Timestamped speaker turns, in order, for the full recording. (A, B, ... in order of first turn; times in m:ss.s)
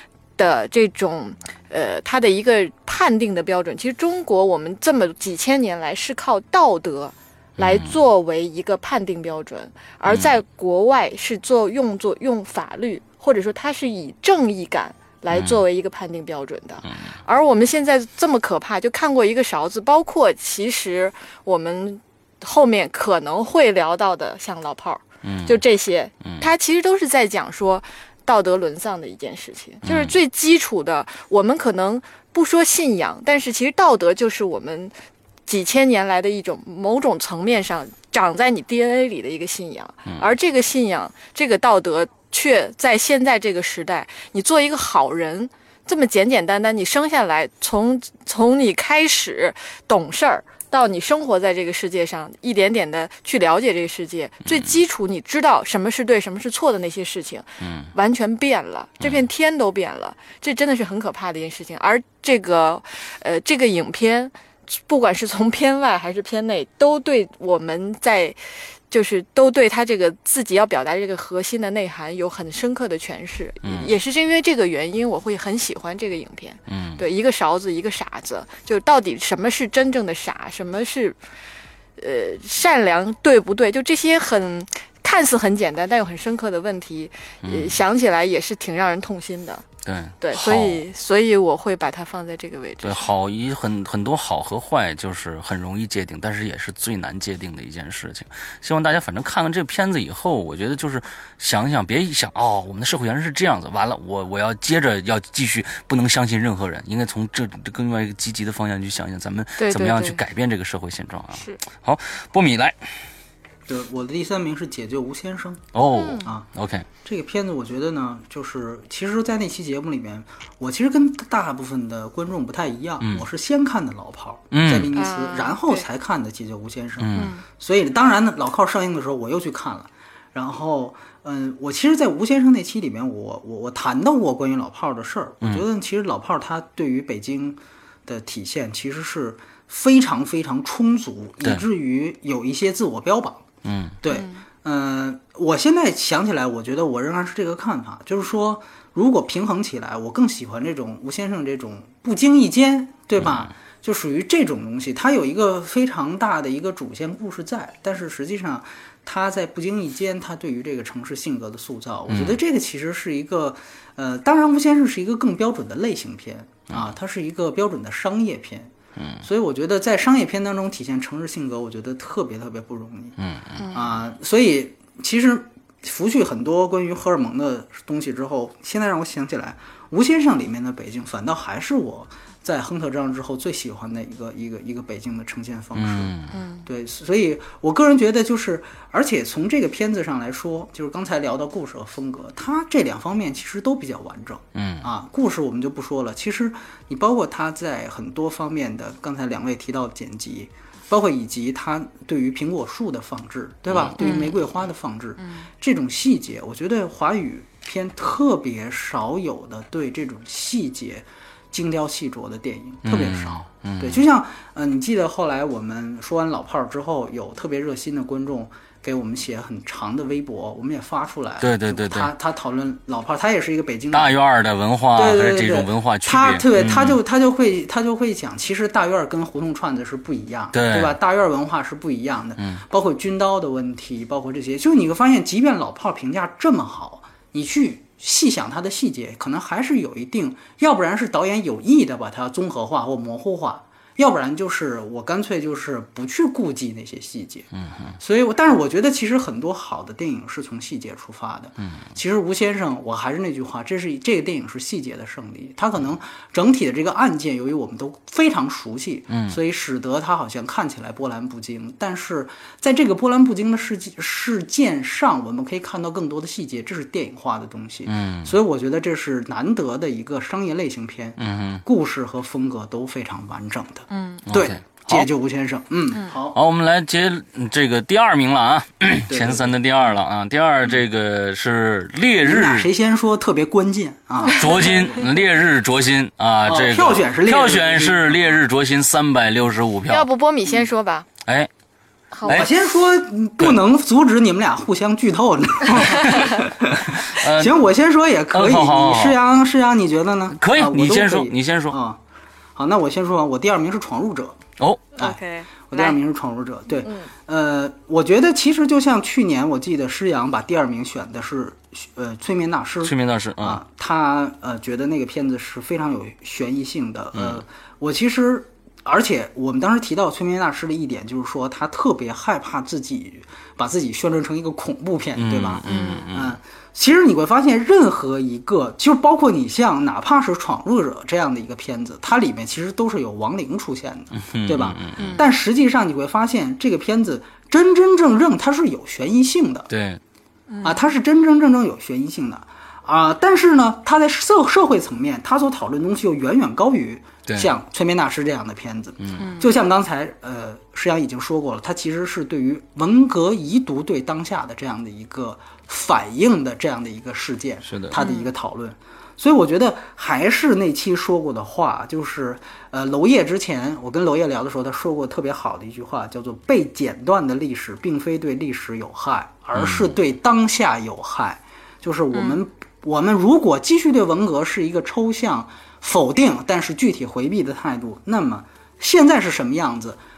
0:00.4-0:34.9 A
0:07.6-0:08.0 B
0:10.1-0:10.4 B
0:15.3-0:15.6 B
0:16.9-0:17.1 B
0:25.2-0:25.6 B
0:26.2-0:26.5 B
0:29.8-0:30.2 B
0:35.5-1:21.2 A
0:54.5-0:54.8 B
0:57.6-0:57.9 B
0:59.0-0:59.3 B
1:13.6-1:13.9 B
1:16.7-1:17.0 B
1:22.0-1:29.7 A
1:27.4-1:27.8 B
1:29.8-1:30.8 B
1:30.2-1:33.1 A
1:32.8-1:52.9 B
1:49.6-1:50.2 A
1:53.7-1:55.6 C
1:55.7-1:56.9 B
1:55.9-1:56.3 A
1:56.2-1:56.5 C
1:57.0-2:23.5 C
2:03.0-2:03.3 B
2:04.5-2:04.9 B
2:04.9-2:05.9 A
2:07.0-2:07.3 B
2:07.2-2:07.4 A
2:23.6-2:24.0 B
2:24.0-2:53.2 C
2:24.1-2:24.4 A
2:33.2-2:33.5 B
2:42.1-2:42.4 B
2:49.0-2:49.2 B
2:53.2-2:53.6 B
2:53.7-3:06.1 C
3:05.8-3:06.4 B
3:06.3-3:06.7 A
3:06.7-3:44.2 C
3:14.6-3:14.9 B
3:23.7-3:24.0 B
3:24.0-3:24.4 A
3:25.2-3:25.5 A
3:32.9-3:34.0 B
3:41.4-3:42.1 B
3:43.9-3:47.0 B
3:45.0-4:07.5 C
3:50.5-3:51.0 B
4:07.6-4:08.0 B
4:08.0-4:36.4 C
4:19.1-4:19.4 B
4:27.9-4:28.4 B
4:31.2-4:31.6 B
4:33.9-4:34.3 A
4:34.3-4:35.1 B
4:36.3-4:42.7 B
4:39.1-4:39.5 C
4:42.2-4:45.0 C
4:44.4-4:50.1 B
4:46.4-4:48.4 C
4:49.9-4:51.1 A
4:51.2-4:51.5 B
4:52.1-4:52.5 A
4:52.2-4:52.5 B
4:52.3-5:02.0 C
4:56.7-4:57.6 B
4:58.3-4:59.2 B
5:00.4-5:01.8 B
5:02.6-5:04.4 C
5:05.0-5:06.0 A
5:05.7-5:39.7 C
5:06.8-5:07.1 A
5:12.8-5:13.6 B
5:17.2-5:17.4 B
5:25.2-5:26.4 B
5:25.7-5:26.1 A
5:34.2-5:35.1 B
5:35.0-5:35.3 A
5:39.7-5:40.0 B
5:40.5-5:40.9 A
5:40.6-6:20.0 C
5:47.3-5:47.5 B
5:49.0-5:49.3 B
5:49.2-5:49.5 A
5:57.7-5:58.0 B
5:58.0-5:58.3 A
6:09.6-6:09.9 B
6:12.1-6:12.4 A